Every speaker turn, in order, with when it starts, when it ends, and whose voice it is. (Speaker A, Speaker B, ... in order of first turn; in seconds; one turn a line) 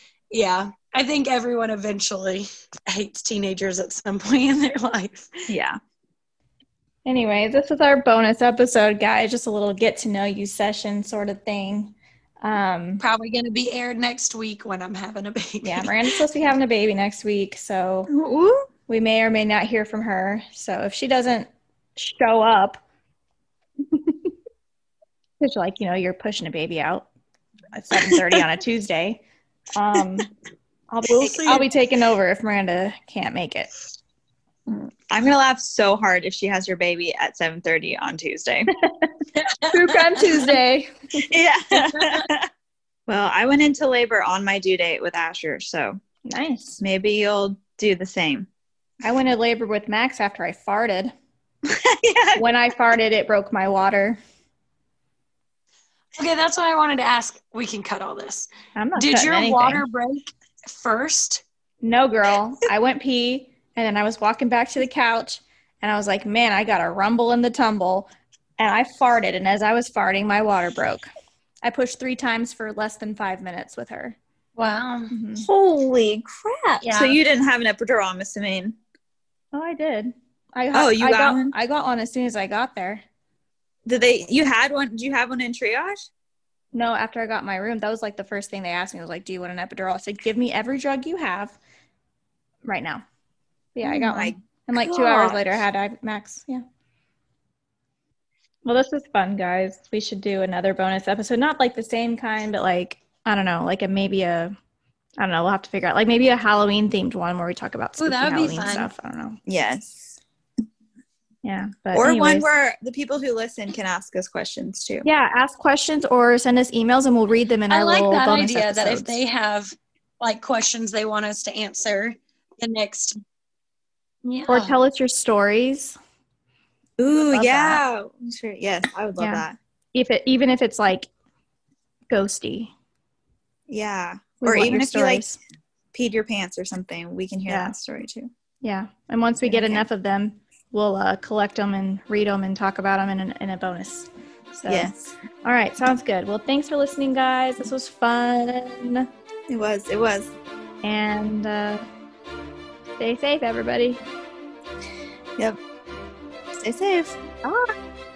Speaker A: 0.3-5.3
Speaker B: 5.5-5.8
Speaker C: 7.1-13.0
Speaker A: 13.0-16.2
Speaker C: 15.6-18.1
Speaker B: 18.1-18.7
Speaker C: 18.9-22.8
Speaker C: 23.9-24.3
Speaker C: 25.4-27.1
Speaker C: 27.7-29.2
Speaker C: 29.8-30.3
Speaker C: 30.9-33.7
Speaker A: 31.2-31.7
Speaker B: 34.7-38.7
Speaker C: 38.8-39.1
Speaker A: 39.4-40.2
Speaker C: 39.7-41.2
Speaker B: 41.3-42.5
Speaker A: 42.0-42.3
Speaker B: 43.1-46.0
Speaker C: 46.3-46.8
Speaker B: 46.8-48.5
Speaker C: 49.0-51.1
Speaker B: 51.6-52.5
Speaker C: 52.4-54.2
Speaker A: 56.2-61.4
Speaker C: 58.8-59.8
Speaker C: 61.8-71.1
Speaker C: 71.6-74.2
Speaker A: 74.6-75.1
Speaker C: 75.1-75.5
Speaker B: 75.4-78.8
Speaker A: 76.8-77.2
Speaker C: 79.5-83.0
Speaker B: 80.7-81.5
Speaker B: 83.9-86.1
Speaker C: 86.7-91.6
Speaker C: 92.6-93.0
Speaker C: 93.8-96.6
Speaker B: 93.8-95.6
Speaker C: 98.6-104.5
Speaker C: 105.2-109.4
Speaker A: 108.0-108.9
Speaker B: 109.5-110.2
Speaker C: 111.4-112.5
Speaker B: 112.0-115.1
Speaker C: 115.0-119.1
Speaker A: 117.7-123.2
Speaker A: 124.2-124.8
Speaker C: 124.5-126.0
Speaker B: 127.0-129.6
Speaker C: 127.1-127.8
Speaker C: 129.2-131.1
Speaker C: 132.1-132.7
Speaker B: 133.7-135.2
Speaker C: 134.4-135.4
Speaker B: 135.9-138.3
Speaker C: 137.5-137.7
Speaker C: 138.6-144.9
Speaker B: 139.4-139.9
Speaker B: 144.7-145.1
Speaker C: 145.4-149.1
Speaker B: 149.5-150.3
Speaker C: 150.8-151.9
Speaker C: 153.0-154.0
Speaker B: 156.6-157.7